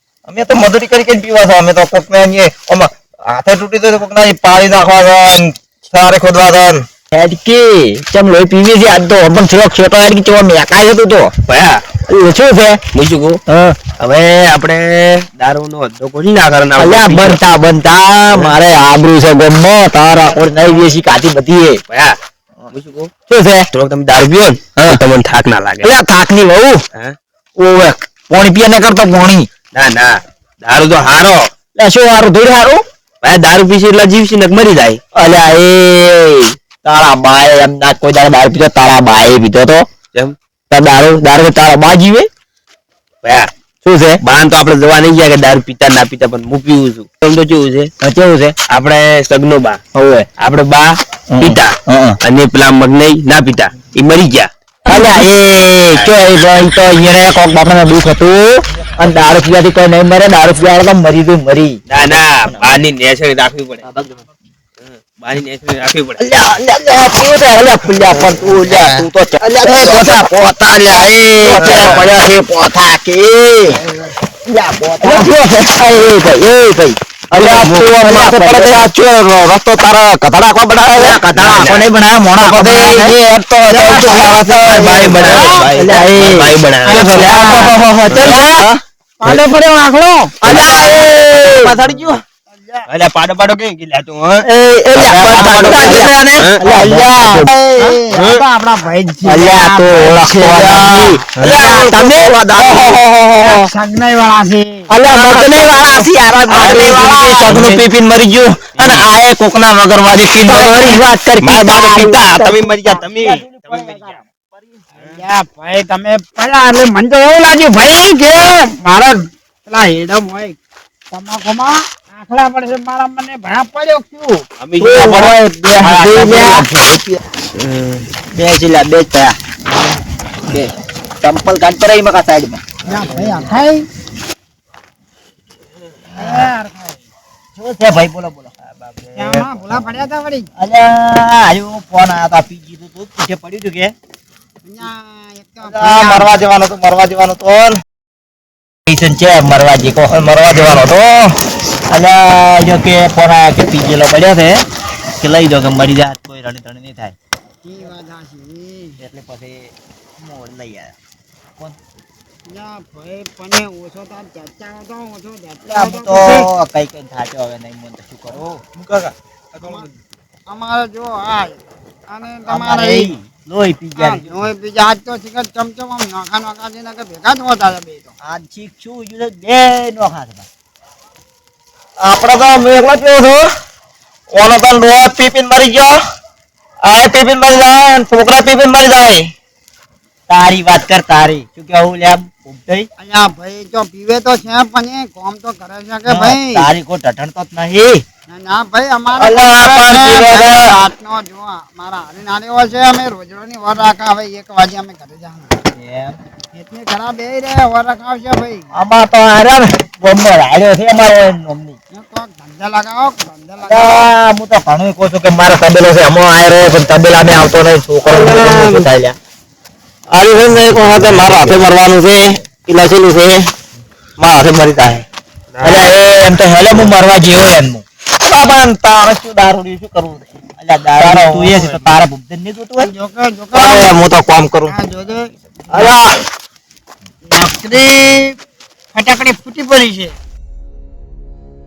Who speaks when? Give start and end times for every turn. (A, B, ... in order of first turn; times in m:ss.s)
0:00.3-0:06.9 A
0:07.1-0:11.3 B
0:11.5-0:11.8 C
0:12.1-0:12.8 B
0:12.9-0:13.4 C
0:13.5-0:13.8 B
0:14.0-0:17.4 C
0:16.8-0:21.8 B
0:21.9-0:22.2 C
0:22.7-0:23.1 C
0:23.3-0:23.7 B
0:23.7-0:26.0 C
0:25.8-0:26.8 B
0:27.6-0:29.5 B
0:29.7-0:31.5 C
0:31.8-0:32.8 B
0:33.2-0:35.0 C
0:35.1-0:39.9 B
0:40.7-0:42.3 B
0:43.2-0:43.5 C
0:43.8-0:44.2 B
0:44.2-0:47.9 C
0:48.0-0:48.6 B
0:48.7-0:49.8 C
0:49.9-0:50.3 B
0:50.4-0:54.9 C
0:51.3-0:52.2 B
0:54.9-1:01.8 B
1:01.9-1:03.9 C
1:02.5-1:02.8 B
1:04.8-1:06.2 C
1:06.3-1:13.8 B
1:06.9-1:12.2 A
1:11.7-1:12.0 C
1:14.4-1:18.9 B
1:15.0-1:15.7 A
1:17.3-1:21.2 A
1:20.9-1:23.2 B
1:21.3-1:21.9 C
1:22.4-1:25.7 A
1:23.7-1:24.3 B
1:24.5-1:27.5 C
1:25.2-1:25.6 D
1:25.7-1:28.7 B
1:26.9-1:28.8 A
1:28.1-1:28.4 C
1:29.2-1:30.5 D
1:30.4-1:32.2 C
1:30.4-1:32.2 B
1:32.5-1:32.9 D
1:32.9-1:34.5 C
1:34.4-1:37.5 B
1:35.0-1:36.4 A
1:35.1-1:36.6 C
1:36.6-1:40.2 D
1:38.1-1:38.4 C
1:39.2-1:41.3 B
1:40.1-1:43.7 A
1:41.4-1:42.9 C
1:41.8-1:43.0 B
1:43.4-1:44.9 D
1:44.9-1:51.0 A
1:45.0-1:47.9 B
1:45.5-1:46.1 C
1:48.8-1:49.0 C
1:50.4-1:54.8 B
1:51.4-1:54.2 C
1:55.0-2:00.6 D
2:01.1-2:04.4 D
2:04.6-2:06.8 C
2:04.8-2:07.2 B
2:07.6-2:08.0 C
2:08.3-2:09.4 B
2:10.5-2:12.6 B
2:12.8-2:13.9 D
2:16.1-2:17.0 D
2:17.6-2:18.5 B
2:18.9-2:19.4 C
2:19.2-2:20.5 D
2:20.6-2:23.9 B
2:24.6-2:26.4 D
2:25.6-2:27.8 A
2:28.9-2:30.2 B
2:30.1-2:31.4 A
2:31.9-2:34.6 B
2:35.2-2:37.1 B
2:37.6-2:39.0 D
2:39.0-2:40.9 B
2:42.5-2:46.5 D
2:45.7-2:48.6 B
2:48.8-2:49.9 C
2:49.6-2:49.9 D
2:50.5-2:51.6 D
2:52.1-2:53.1 D
2:52.5-2:54.4 B
2:54.0-2:58.1 D
2:58.2-3:00.5 B
3:02.0-3:03.5 A
3:04.3-3:06.0 A
3:06.8-3:09.3 A
3:10.3-3:12.9 B
3:13.0-3:16.7 D
3:16.1-3:18.0 B
3:18.3-3:25.6 D
3:19.2-3:20.8 A
3:25.8-3:26.2 B
3:26.5-3:28.7 D
3:28.8-3:31.8 B
3:31.9-3:34.1 D
3:33.7-3:35.8 B
3:35.8-3:36.7 A
3:36.4-3:39.2 B
3:38.1-3:38.9 A
3:38.3-3:38.6 C
3:40.1-3:42.2 A
3:40.8-3:42.0 B
3:42.6-3:43.5 B
3:44.2-3:45.0 A
3:45.5-3:46.0 C
3:45.6-3:47.8 B
3:48.2-3:50.3 A
3:50.6-3:52.9 B
3:51.0-3:51.8 A
3:52.8-3:53.9 D
3:53.5-3:54.7 A
3:54.7-3:56.0 D
3:55.7-3:56.1 A
3:57.3-3:58.4 D
3:58.9-4:00.2 D